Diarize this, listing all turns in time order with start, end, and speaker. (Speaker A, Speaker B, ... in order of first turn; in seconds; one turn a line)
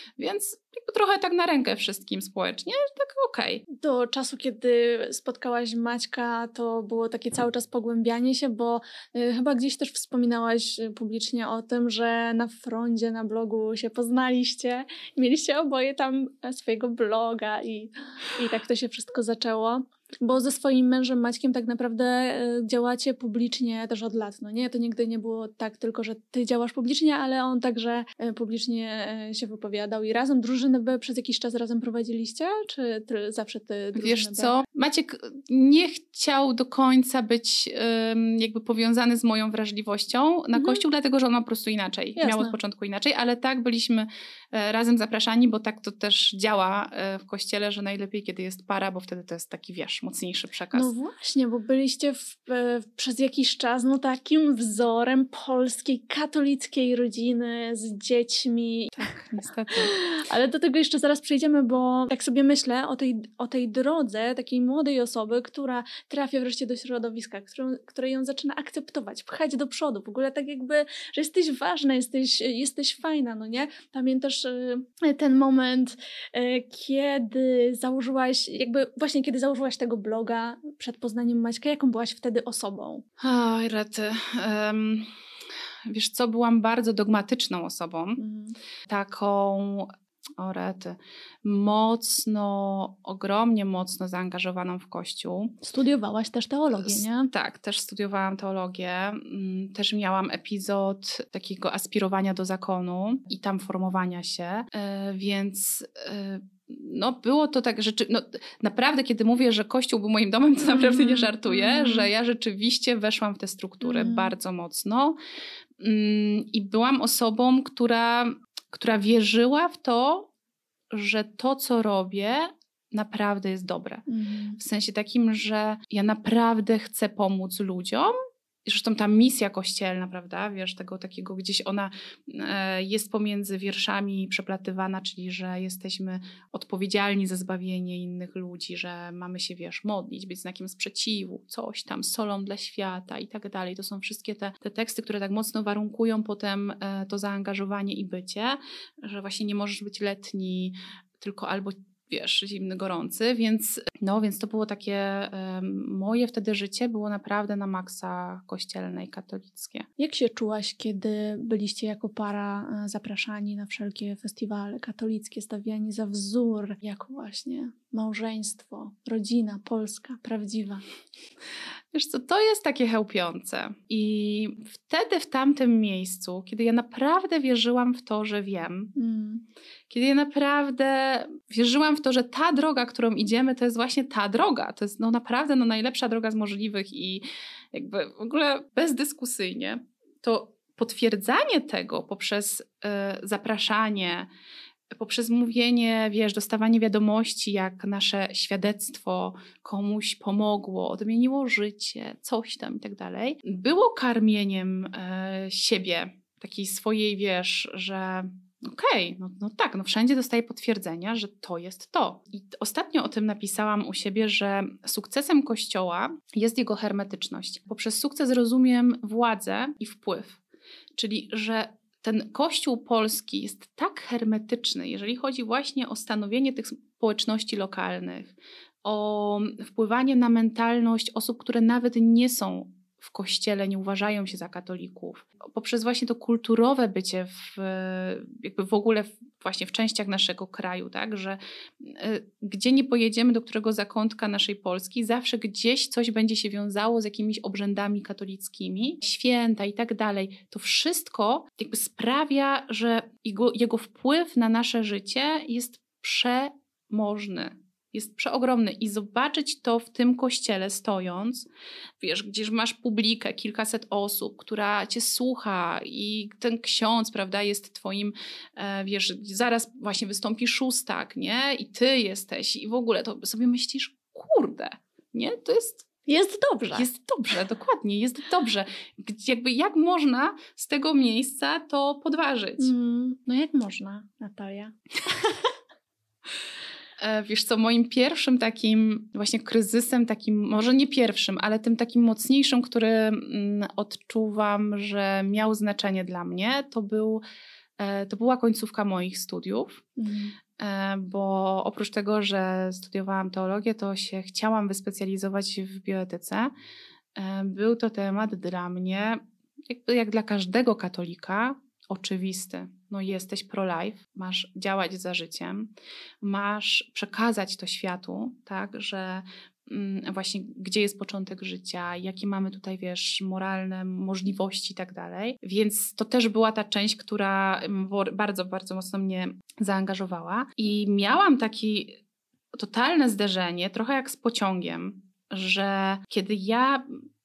Speaker A: 0.2-3.6
Speaker B: 3.7-34.6
Speaker A: 33.9-50.9
Speaker B: 40.5-40.8
Speaker B: 42.2-42.5
Speaker B: 50.7-59.1
Speaker A: 59.0-59.9
Speaker B: 59.7-83.0
Speaker A: 83.2-85.1
Speaker A: 85.9-88.2
Speaker B: 88.2-88.5
Speaker A: 88.9-95.6
Speaker B: 95.6-97.3
Speaker A: 96.8-115.2
Speaker B: 110.6-112.1
Speaker B: 113.8-114.3
Speaker A: 115.8-120.3
Speaker A: 120.9-124.0
Speaker B: 124.1-124.6
Speaker A: 124.6-128.1
Speaker A: 128.7-159.9
Speaker B: 160.0-170.8
Speaker A: 171.9-178.9
Speaker B: 178.9-179.4
Speaker A: 179.9-194.3
Speaker A: 194.9-220.4
Speaker A: 221.0-261.5
Speaker A: 262.0-275.9
Speaker B: 276.1-276.9
Speaker A: 276.7-282.7
Speaker B: 282.6-285.4
Speaker A: 287.0-297.2
Speaker A: 297.8-299.8
Speaker B: 300.0-300.4
Speaker A: 300.6-306.5
Speaker A: 307.1-332.0
Speaker A: 332.5-336.9